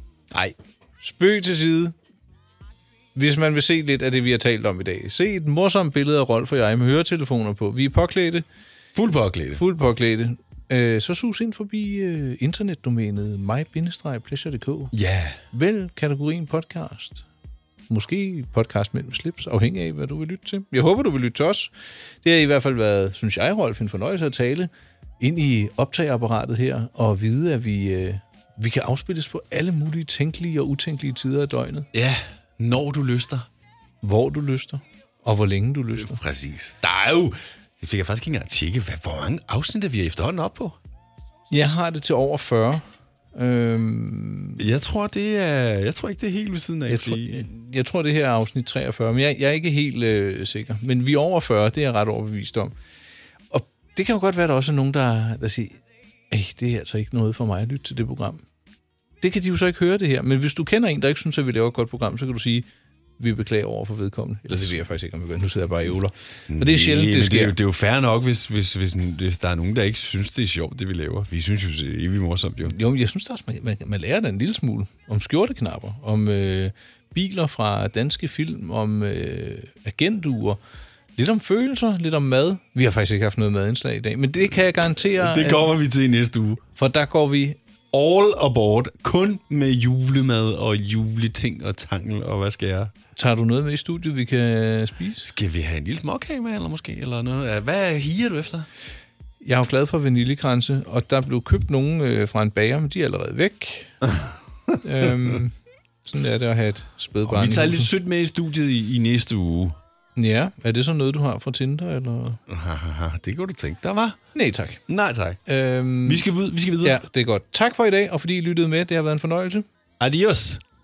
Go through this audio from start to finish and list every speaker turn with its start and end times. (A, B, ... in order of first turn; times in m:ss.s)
0:00.3-0:01.9 A
0:03.2-0:08.4 A
0:09.0-0:09.6 B
0:09.6-0:15.0 A
0:14.9-0:15.4 B
0:15.5-0:17.3 A
0:17.9-0:21.7 A
0:22.2-0:31.9 A
0:31.9-0:33.5 B
0:34.0-0:36.2 A
0:36.0-0:40.8 B
0:41.5-0:42.8 A
0:43.4-0:44.6 A
0:44.6-0:47.5 B
0:46.9-0:52.7 A
0:53.5-0:55.8 A
0:56.3-0:58.4 A
0:59.2-1:02.6 A
1:03.2-1:07.6 A
1:06.5-1:12.8 B
1:12.7-1:20.6 A
1:21.2-1:25.7 A
1:25.2-1:26.6 B
1:26.8-1:27.6 A
1:27.9-1:32.9 B
1:33.2-1:35.3 A
1:35.2-1:38.7 B
1:39.4-1:44.0 A
1:44.8-1:47.9 A
1:47.2-1:49.8 B
1:50.2-1:52.4 A
1:52.5-1:54.2 B
1:54.4-1:54.8 A
1:54.9-1:55.4 B
1:55.5-1:56.3 A
1:56.0-1:57.0 B
1:56.8-1:59.7 A
2:00.0-2:00.6 B